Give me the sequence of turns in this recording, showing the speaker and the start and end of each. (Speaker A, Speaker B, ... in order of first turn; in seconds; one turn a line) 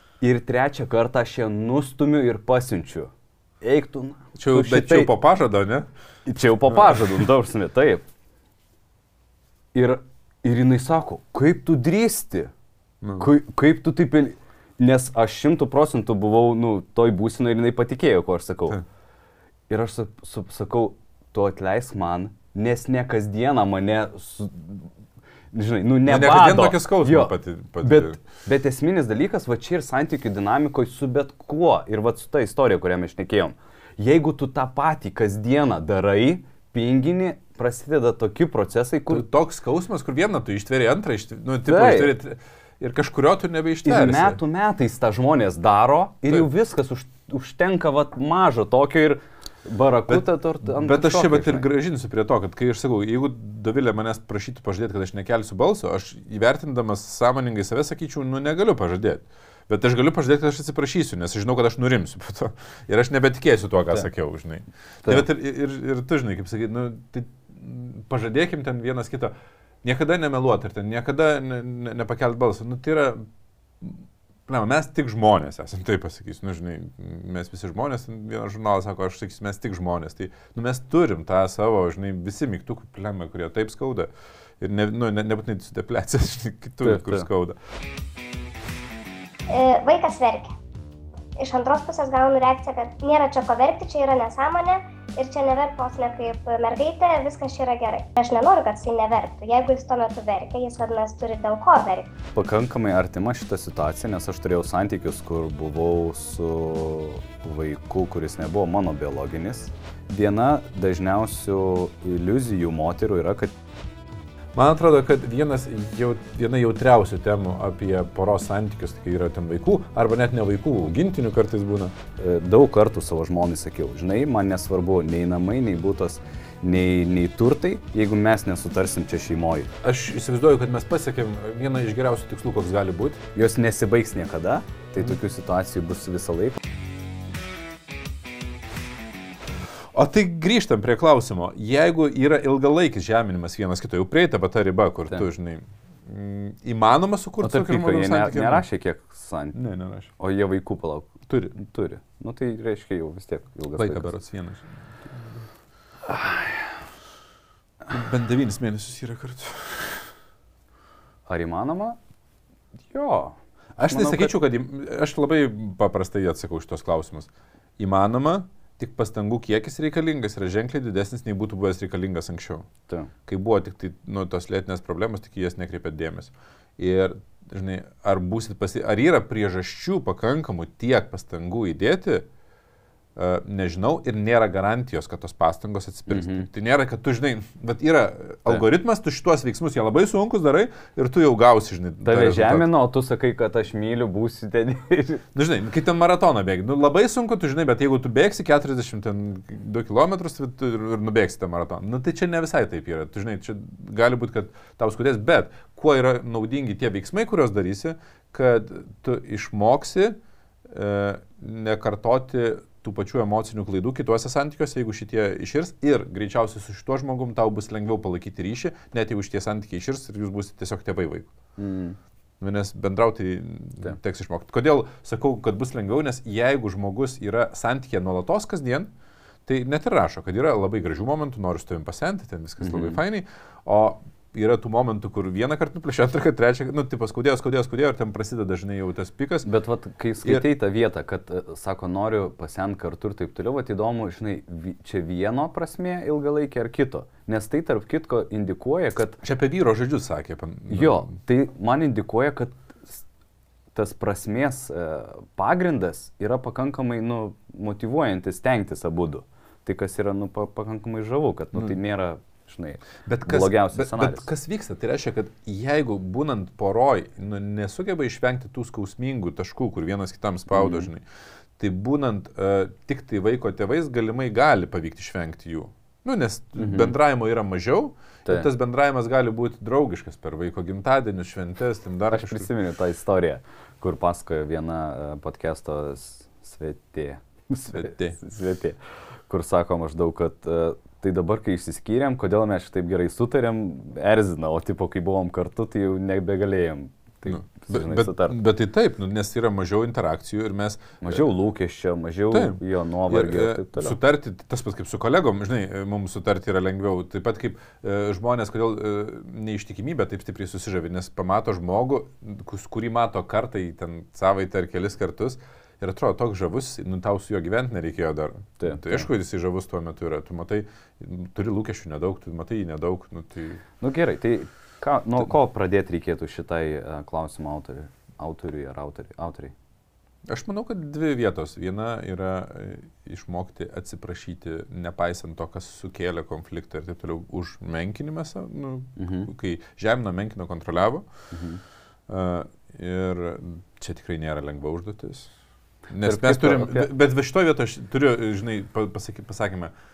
Speaker A: 0.2-3.1
Speaker A: 3.6-5.1
Speaker B: 4.3-5.9
Speaker A: 6.2-8.0
Speaker A: 9.7-12.5
Speaker B: 13.0-13.3
Speaker A: 13.2-18.8
Speaker A: 19.7-24.9
Speaker A: 25.5-39.2
Speaker B: 26.1-28.2
Speaker B: 39.1-44.4
Speaker A: 41.6-42.1
Speaker A: 43.8-51.6
Speaker B: 50.1-73.2
Speaker B: 73.8-87.6
Speaker A: 86.8-87.3
Speaker C: 89.5-90.5
Speaker C: 91.4-102.1
Speaker A: 102.3-113.5
Speaker B: 114.5-121.9
Speaker A: 122.2-129.7
Speaker B: 129.8-133.2
Speaker A: 133.3-136.6
Speaker B: 139.9-148.6
Speaker A: 147.4-149.6
Speaker B: 149.5-150.1
Speaker A: 150.2-154.1
Speaker B: 151.3-151.5
Speaker B: 153.7-155.4
Speaker A: 156.1-156.6
Speaker B: 157.9-160.1
Speaker A: 161.3-162.0
Speaker A: 162.9-164.3
Speaker B: 163.8-172.7
Speaker B: 173.2-182.2
Speaker B: 183.2-192.7
Speaker A: 186.1-186.5
Speaker A: 192.0-195.2
Speaker B: 195.3-221.3
Speaker A: 221.6-222.0
Speaker B: 222.4-228.9
Speaker B: 229.4-239.5
Speaker A: 232.6-233.0
Speaker A: 239.4-249.2
Speaker B: 249.2-251.1
Speaker A: 250.7-253.0
Speaker A: 253.7-264.3
Speaker B: 263.0-271.0
Speaker A: 270.5-270.9
Speaker B: 271.6-282.5
Speaker A: 276.6-276.9
Speaker A: 282.1-288.8
Speaker B: 287.7-288.2
Speaker A: 289.3-298.4
Speaker B: 297.3-301.2
Speaker A: 301.0-304.0
Speaker B: 302.3-323.6
Speaker A: 318.6-319.1
Speaker A: 323.8-329.5
Speaker B: 330.3-341.0
Speaker A: 339.0-339.3
Speaker A: 341.3-341.6
Speaker B: 342.1-345.3
Speaker B: 345.9-349.7
Speaker A: 346.0-346.9